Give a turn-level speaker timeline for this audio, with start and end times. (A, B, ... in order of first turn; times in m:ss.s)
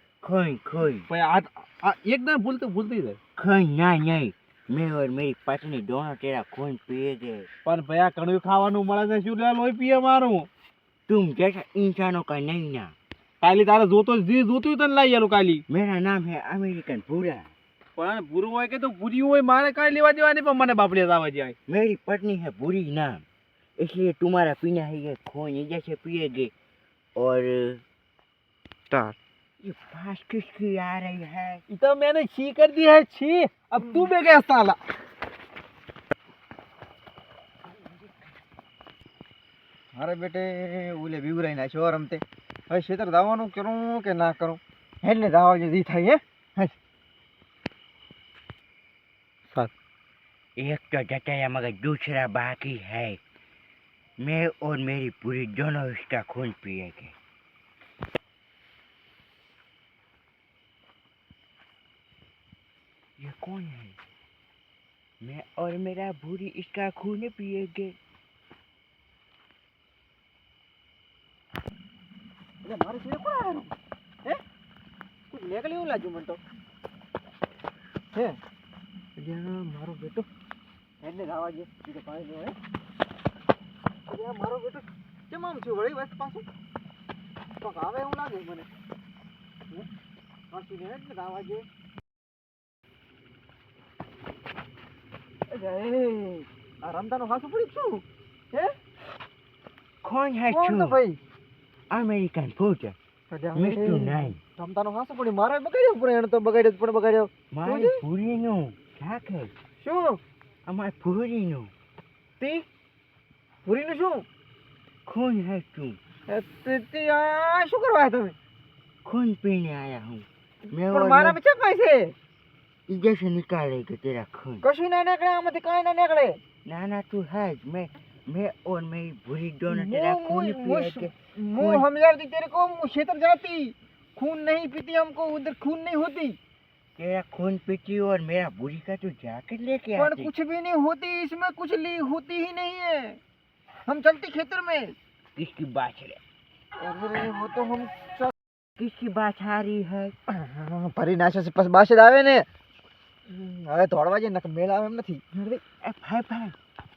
0:00.2-0:01.1 A
0:01.1-0:03.2 B
0:03.4-0:07.5 A
0:07.6-0:10.5 B
0:11.1-0:12.9 A
0:13.4-0:15.6 B
0:15.7-0:17.5 A
0:18.0-0:21.6 B
0:21.7-0:23.2 A
0:23.8-0:26.5 A
0:27.2-0:27.8 A
0:29.6-0:31.6 A
0:31.7-0:34.8 B
0:39.9-0:46.7 C
0:50.6-0:53.2 A
0:54.2-0:57.1 A
1:03.2-1:04.0 A
1:05.2-1:08.0 A
1:12.6-1:13.7 C
1:15.3-1:16.4 C
1:18.1-1:18.4 C
1:19.2-1:20.3 C
1:21.0-1:22.6 C
1:24.1-1:26.5 C
1:27.6-1:28.7 C
1:30.5-1:31.6 C
1:35.5-1:38.7 C
1:40.0-1:41.0 A
1:40.5-1:41.2 C
1:41.9-1:43.0 A
1:43.3-1:48.0 C
1:43.5-1:44.4 A
1:47.5-1:49.5 A
1:49.8-1:50.2 C
1:50.6-1:51.7 A
1:52.4-1:52.7 C
1:53.6-1:54.2 C
1:55.0-1:56.0 A
1:56.3-1:58.3 C
1:59.0-2:01.4 A
2:00.9-2:02.1 C
2:02.9-2:04.6 A
2:04.6-2:06.4 C
2:06.6-2:11.8 A
2:09.7-2:16.4 C
2:17.0-2:20.3 A
2:20.0-2:23.2 C
2:23.9-2:24.9 C
2:25.4-2:26.2 A
2:26.8-2:28.3 C
2:28.8-2:30.1 A
2:30.3-2:32.4 C
2:33.3-2:35.6 C
2:35.8-2:36.5 A